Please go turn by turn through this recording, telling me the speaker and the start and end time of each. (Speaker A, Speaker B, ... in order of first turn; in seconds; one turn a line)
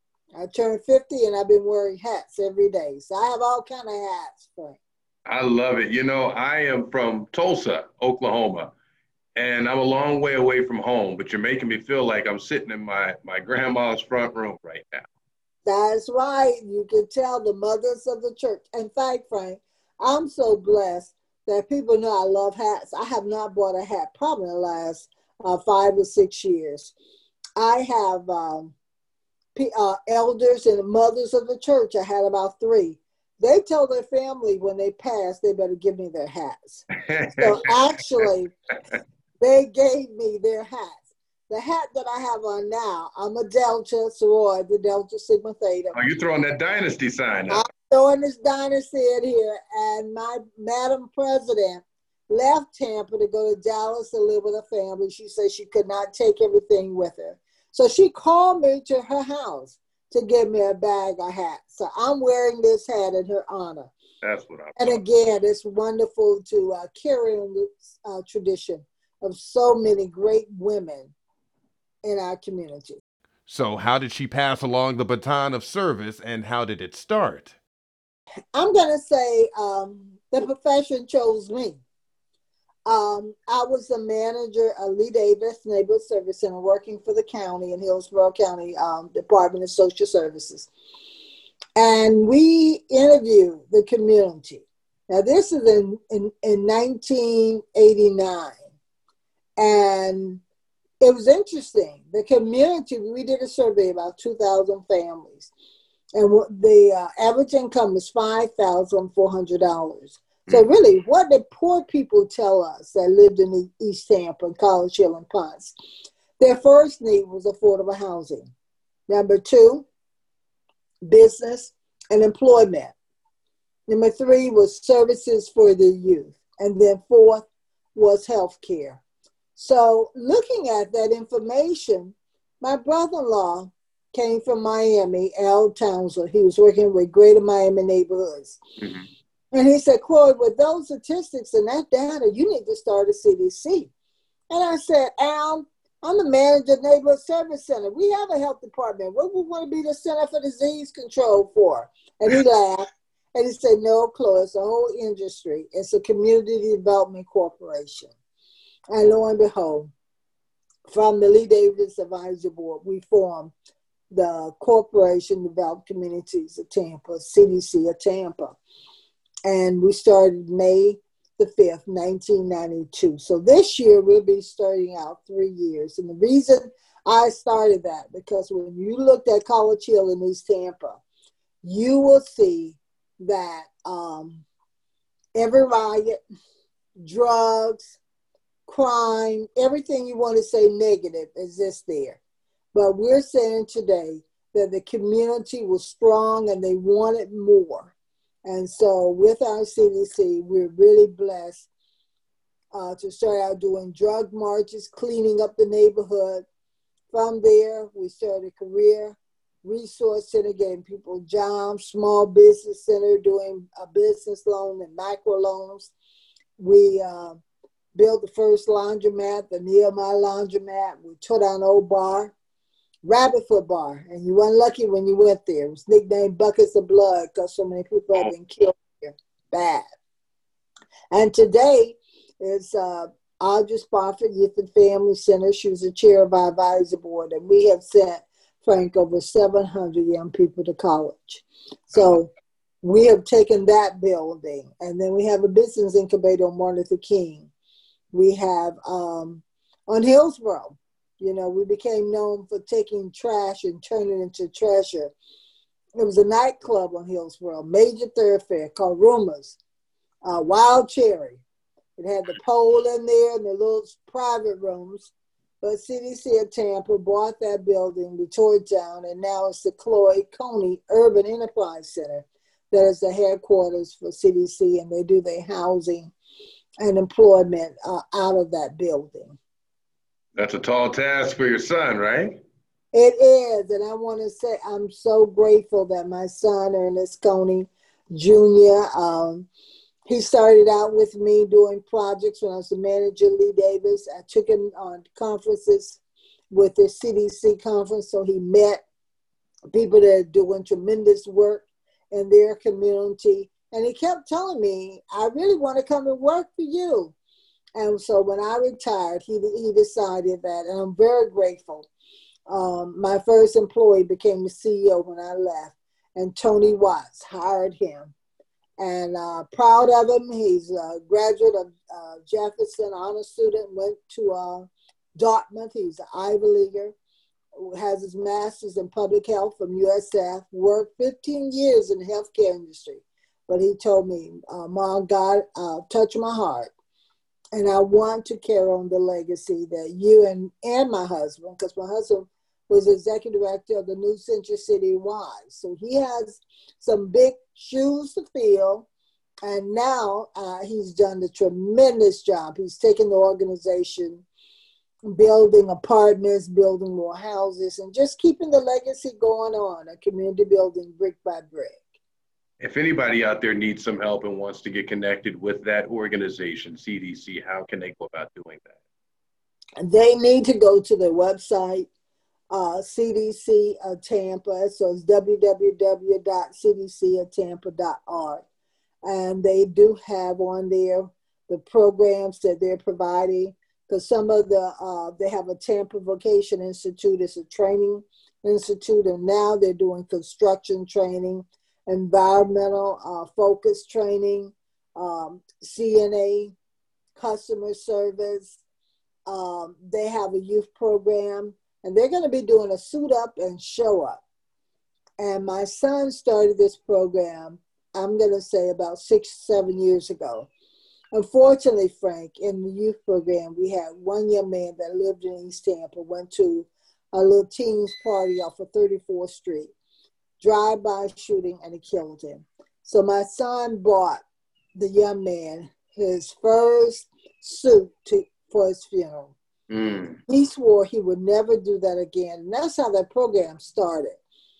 Speaker A: 0.3-4.8
Speaker B: 5.2-8.7
Speaker B: 9.3-15.1
Speaker A: 15.6-26.9
Speaker A: 27.6-28.7
Speaker A: 29.5-38.5
Speaker B: 37.0-37.6
Speaker A: 39.4-46.0
Speaker B: 45.9-47.6
Speaker A: 47.5-63.9
Speaker B: 64.2-65.0
Speaker A: 64.8-71.1
Speaker A: 72.0-73.0
Speaker C: 73.5-77.5
Speaker A: 78.5-81.8
Speaker A: 82.8-90.7
Speaker A: 91.8-98.6
Speaker A: 99.6-100.4
Speaker A: 101.0-105.5
Speaker A: 106.2-115.7
Speaker A: 116.4-118.5
Speaker A: 119.1-119.8
Speaker A: 121.0-122.9
Speaker A: 123.9-129.0
Speaker A: 129.6-138.6
Speaker B: 138.8-139.1
Speaker A: 139.5-143.9
Speaker A: 144.5-158.1
Speaker A: 158.9-159.9
Speaker A: 160.9-163.5
Speaker A: 164.1-168.6
Speaker A: 169.4-181.0
Speaker A: 181.6-184.4
Speaker A: 185.3-186.2
Speaker A: 187.0-188.0
Speaker A: 188.7-192.2
Speaker A: 192.7-197.9
Speaker A: 198.4-201.7
Speaker A: 202.7-206.4
Speaker A: 207.1-215.9
Speaker A: 216.6-217.4
Speaker A: 217.9-222.3
Speaker A: 223.0-229.9
Speaker A: 231.1-247.5
Speaker A: 248.1-255.1
Speaker A: 256.0-259.6
Speaker A: 260.2-261.4
Speaker A: 262.0-276.1
Speaker A: 276.8-279.4
Speaker B: 280.3-282.4
Speaker A: 282.9-289.5
Speaker A: 290.1-296.0
Speaker A: 296.5-298.8
Speaker A: 299.7-307.1
Speaker A: 307.8-311.9
Speaker A: 312.5-318.1
Speaker A: 318.8-326.9
Speaker A: 327.6-336.7
Speaker A: 337.5-348.9
Speaker A: 349.4-354.2
Speaker A: 355.1-361.9
Speaker B: 362.6-368.7
Speaker A: 369.8-371.9
Speaker A: 372.5-378.4
Speaker A: 379.1-396.5
Speaker A: 397.1-398.6
Speaker A: 399.3-404.2
Speaker A: 405.2-410.5
Speaker A: 411.1-419.7
Speaker A: 420.4-424.2
Speaker A: 424.8-429.3
Speaker B: 429.7-430.2
Speaker A: 430.3-434.2